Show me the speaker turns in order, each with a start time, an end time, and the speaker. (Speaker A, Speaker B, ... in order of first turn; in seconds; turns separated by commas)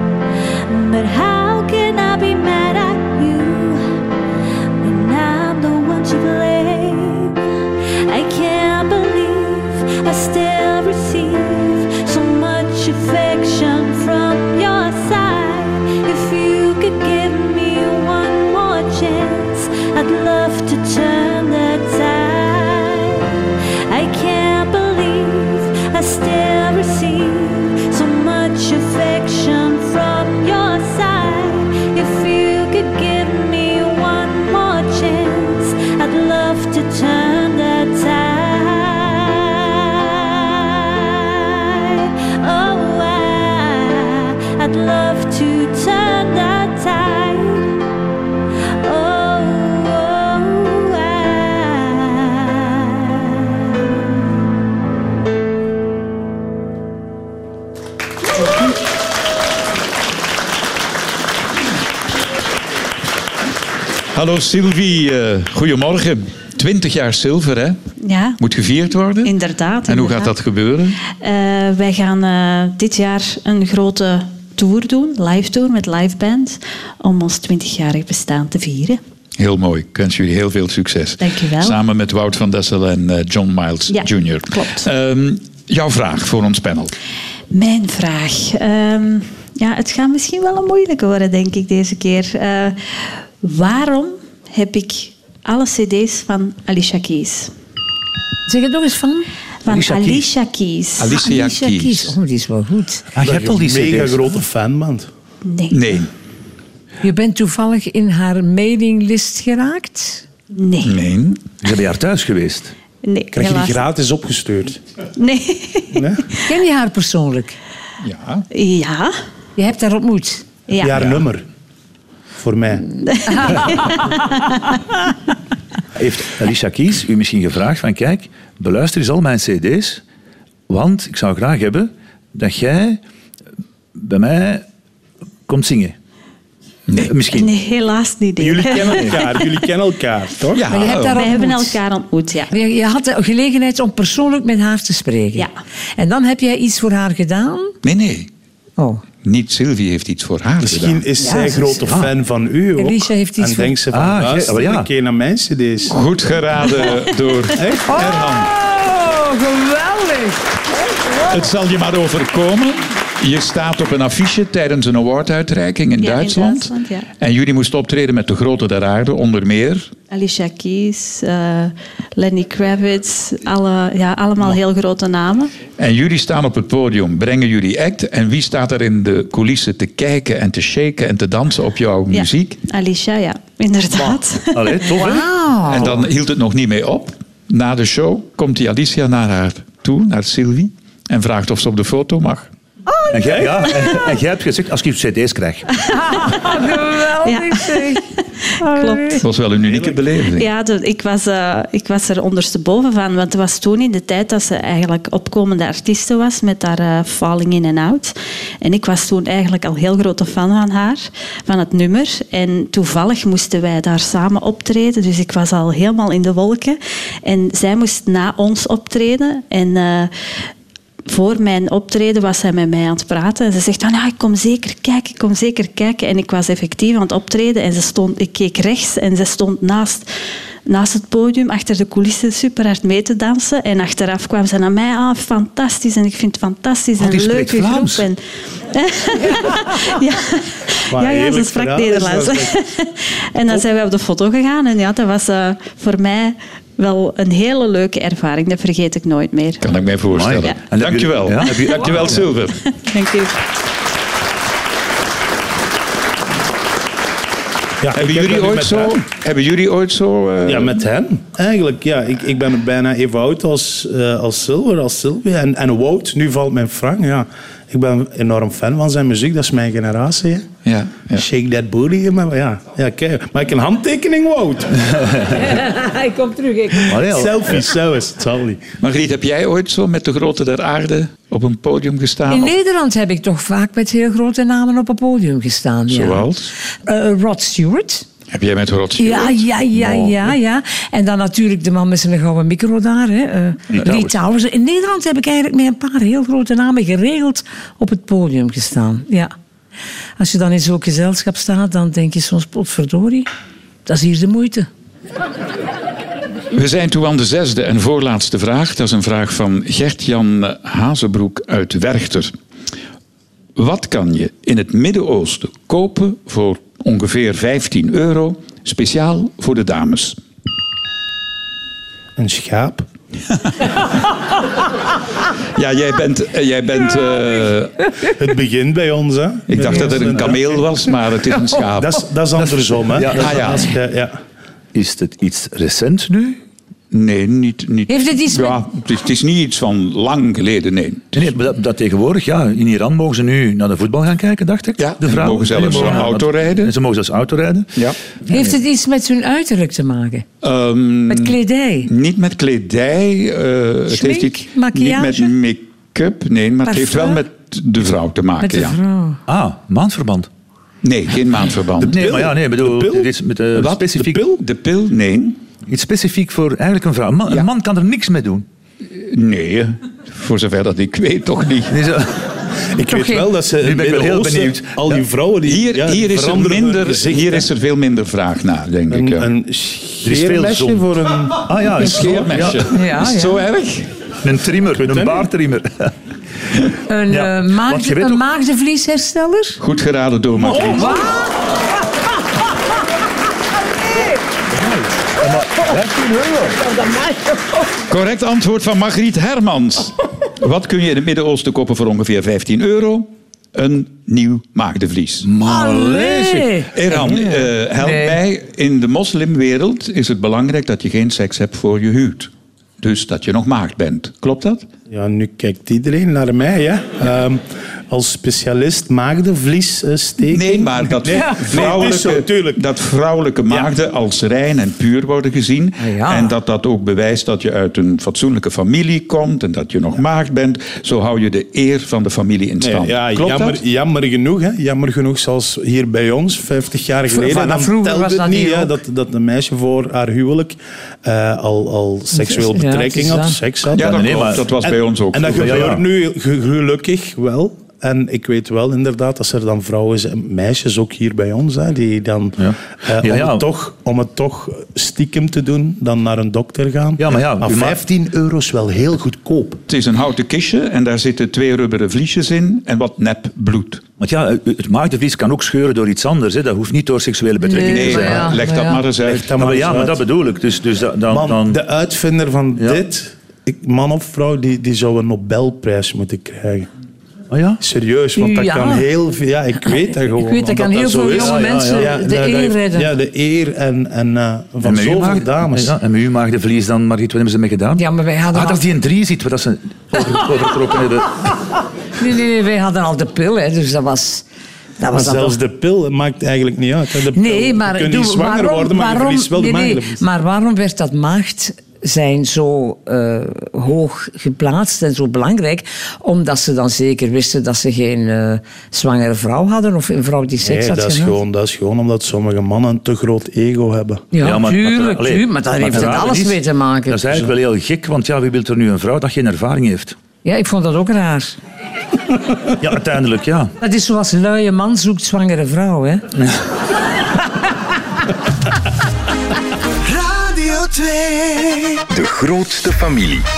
Speaker A: 0.7-4.0, Speaker A: 4.8-7.4, Speaker A: 8.1-23.4, Speaker A: 23.9-47.8, Speaker A: 48.8-54.0, Speaker B: 64.1-67.8, Speaker C: 68.0-68.4, Speaker B: 68.4-71.0, Speaker C: 69.2-70.3, Speaker C: 71.1-79.0, Speaker B: 79.4-86.9, Speaker C: 81.2-81.8, Speaker C: 83.9-84.9, Speaker C: 87.5-97.5, Speaker D: 98.5-99.3, Speaker C: 99.7-101.2, Speaker E: 99.7-100.3, Speaker B: 101.0-102.2, Speaker D: 101.1-103.0, Speaker E: 103.2-104.2, Speaker F: 103.2-105.1, Speaker C: 105.4-105.8, Speaker B: 105.7-106.1, Speaker D: 107.0-110.2, Speaker C: 110.5-111.0, Speaker B: 110.8-111.4, Speaker E: 111.6-112.7, Speaker C: 113.0-113.8, Speaker F: 113.3-114.8, Speaker C: 115.2-116.0, Speaker F: 115.9-116.2, Speaker D: 116.5-117.6, Speaker B: 118.0-118.5, Speaker C: 118.5-119.1, Speaker D: 119.6-120.4, Speaker C: 120.7-121.0, Speaker F: 120.8-121.5, Speaker F: 122.4-122.9, Speaker C: 123.1-124.8, Speaker D: 123.3-124.0, Speaker E: 126.0-130.0, Speaker E: 130.7-133.0, Speaker E: 134.0-134.7, Speaker E: 135.5-136.0, Speaker E: 137.0-137.5, Speaker C: 137.3-139.6, Speaker F: 138.4-140.7, Speaker E: 138.7-139.2, Speaker B: 140.6-141.3, Speaker D: 140.7-141.8, Speaker C: 141.0-142.5, Speaker D: 142.5-147.7, Speaker B: 147.8-148.3, Speaker B: 149.2-151.1, Speaker F: 150.6-156.0, Speaker D: 151.2-151.8, Speaker E: 151.9-152.1, Speaker D: 152.8-153.8, Speaker E: 153.9-154.9, Speaker B: 155.9-158.5, Speaker F: 157.6-158.0, Speaker D: 157.9-160.4, Speaker B: 161.3-169.9, Speaker C: 166.0-167.1, Speaker C: 170.1-175.5, Speaker B: 175.8-182.6, Speaker C: 182.1-184.8, Speaker E: 184.5-185.3, Speaker D: 184.8-186.0, Speaker B: 185.7-192.5, Speaker D: 193.0-193.9, Speaker E: 193.1-195.7, Speaker D: 195.9-198.1, Speaker C: 197.2-198.0, Speaker D: 198.6-199.2, Speaker C: 198.6-199.3, Speaker B: 199.2-200.5, Speaker F: 199.7-199.9, Speaker C: 200.3-220.1, Speaker C: 221.1-230.1, Speaker C: 230.7-249.7, Speaker E: 237.0-238.1, Speaker F: 240.9-242.5, Speaker B: 249.6-252.6, Speaker E: 250.1-252.3, Speaker C: 252.8-253.4, Speaker F: 257.8-259.0, Speaker B: 257.9-260.8, Speaker F: 260.4-270.5, Speaker B: 270.6-271.2, Speaker F: 271.1-274.9, Speaker E: 274.9-275.3, Speaker D: 275.3-277.0, Speaker E: 276.9-277.6, Speaker F: 277.0-278.6, Speaker B: 278.8-282.5, Speaker D: 282.3-286.3, Speaker B: 285.9-286.5, Speaker D: 286.9-288.1, Speaker B: 288.3-289.4, Speaker D: 289.0-299.3, Speaker E: 289.8-290.1, Speaker E: 293.7-294.1, Speaker D: 300.2-303.3, Speaker D: 303.9-304.7, Speaker B: 306.5-312.3, Speaker B: 313.6-320.2, Speaker F: 322.2-322.9, Speaker B: 325.6-327.9, Speaker F: 328.2-330.7, Speaker B: 329.5-332.1, Speaker F: 331.5-334.2, Speaker E: 332.4-333.7, Speaker B: 333.1-333.8, Speaker E: 334.7-336.4, Speaker B: 336.9-341.4, Speaker D: 337.9-338.6, Speaker E: 341.1-347.7, Speaker B: 344.8-346.8, Speaker D: 348.3-350.2, Speaker B: 350.4-358.8, Speaker D: 351.1-351.9, Speaker D: 353.9-355.3, Speaker D: 356.7-357.2, Speaker D: 358.4-359.2, Speaker E: 359.3-360.3, Speaker B: 360.8-362.1, Speaker E: 361.8-364.2, Speaker F: 361.9-363.1, Speaker B: 363.6-365.4, Speaker F: 363.9-364.4, Speaker E: 365.7-368.5, Speaker B: 368.9-371.8, Speaker E: 371.7-372.2, Speaker F: 372.7-377.5, Speaker D: 372.9-373.3, Speaker E: 373.6-375.0, Speaker B: 375.4-379.3, Speaker F: 378.9-382.1, Speaker E: 380.0-380.8, Speaker E: 381.5-382.7, Speaker B: 381.7-383.9, Speaker D: 382.7-383.4, Speaker E: 384.2-385.9, Speaker F: 384.8-385.3, Speaker D: 386.9-389.6, Speaker E: 387.1-388.2, Speaker B: 389.6-391.1, Speaker D: 390.5-391.3, Speaker E: 394.5-396.6, Speaker D: 396.6-397.6, Speaker B: 397.9-405.3, Speaker E: 405.2-406.5, Speaker D: 405.5-408.2, Speaker B: 406.7-414.7, Speaker F: 414.9-422.6, Speaker B: 420.3-433.6, Speaker D: 425.8-426.4, Speaker F: 432.6-459.6, Speaker D: 437.1-438.8, Speaker D: 442.1-443.4, Speaker B: 443.7-445.7, Speaker E: 443.8-444.5, Speaker E: 445.4-445.8, Speaker E: 452.4-453.4, Speaker E: 457.0-457.8, Speaker B: 459.7-463.8, Speaker E: 464.0-468.4, Speaker D: 467.4-468.8, Speaker B: 467.6-469.3, Speaker F: 469.0-470.0, Speaker E: 469.4-471.6, Speaker F: 471.1-476.7, Speaker E: 477.3-477.6, Speaker F: 477.6-485.8, Speaker D: 478.2-478.9, Speaker D: 479.6-482.9, Speaker E: 481.1-481.9, Speaker E: 484.6-491.3, Speaker D: 487.8-488.7, Speaker D: 492.0-494.2, Speaker D: 494.8-495.4, Speaker F: 494.9-500.0, Speaker D: 497.1-511.2, Speaker F: 510.4-514.0, Speaker D: 514.1-517.1, Speaker E: 514.2-520.0, Speaker D: 520.2-521.4, Speaker E: 522.6-523.5, Speaker D: 523.6-526.0, Speaker G: 529.8-533.2